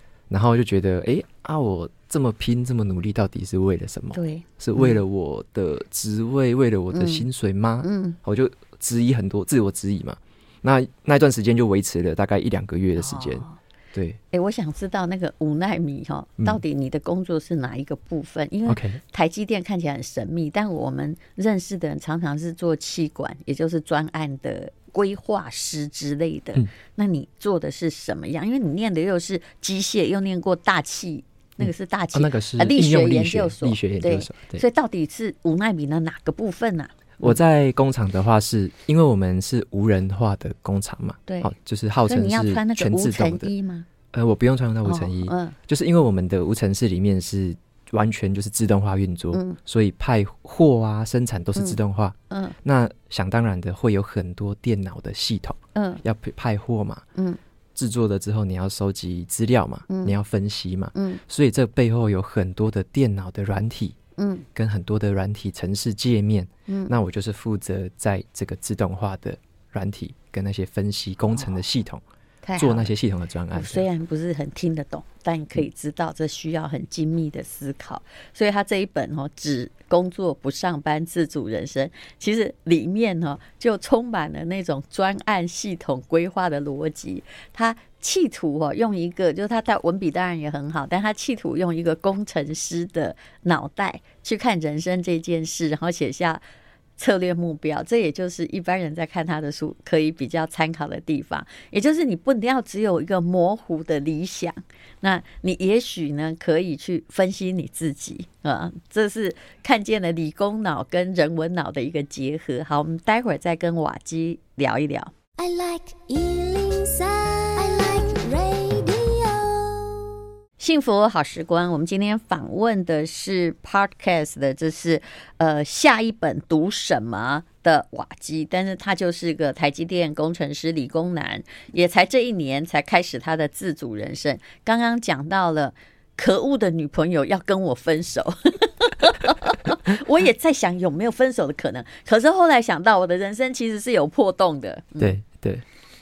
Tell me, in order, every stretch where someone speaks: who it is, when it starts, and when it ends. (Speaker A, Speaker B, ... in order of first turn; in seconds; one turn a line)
Speaker A: 0.3-14.2
Speaker B: 4.2-5.0
Speaker B: 6.9-7.3
Speaker B: 7.8-8.2
Speaker B: 13.0-13.6
Speaker B: 14.3-37.4
Speaker A: 18.7-19.0
Speaker A: 31.6-34.6
Speaker A: 37.2-43.5
Speaker B: 41.3-41.5
Speaker B: 42.1-43.9
Speaker A: 44.1-57.0
Speaker B: 44.9-45.5
Speaker B: 49.3-49.6
Speaker B: 52.3-52.5
Speaker B: 55.8-56.0
Speaker A: 57.8-64.0
Speaker B: 59.9-60.2
Speaker B: 61.0-61.2
Speaker B: 64.2-64.5
Speaker A: 64.5-72.0
Speaker B: 66.7-66.9
Speaker B: 72.4-72.9
Speaker A: 72.6-73.9
Speaker B: 73.5-96.4
Speaker B: 97.0-115.1
Speaker C: 115.4-120.1
Speaker B: 120.6-145.2
Speaker A: 145.0-145.6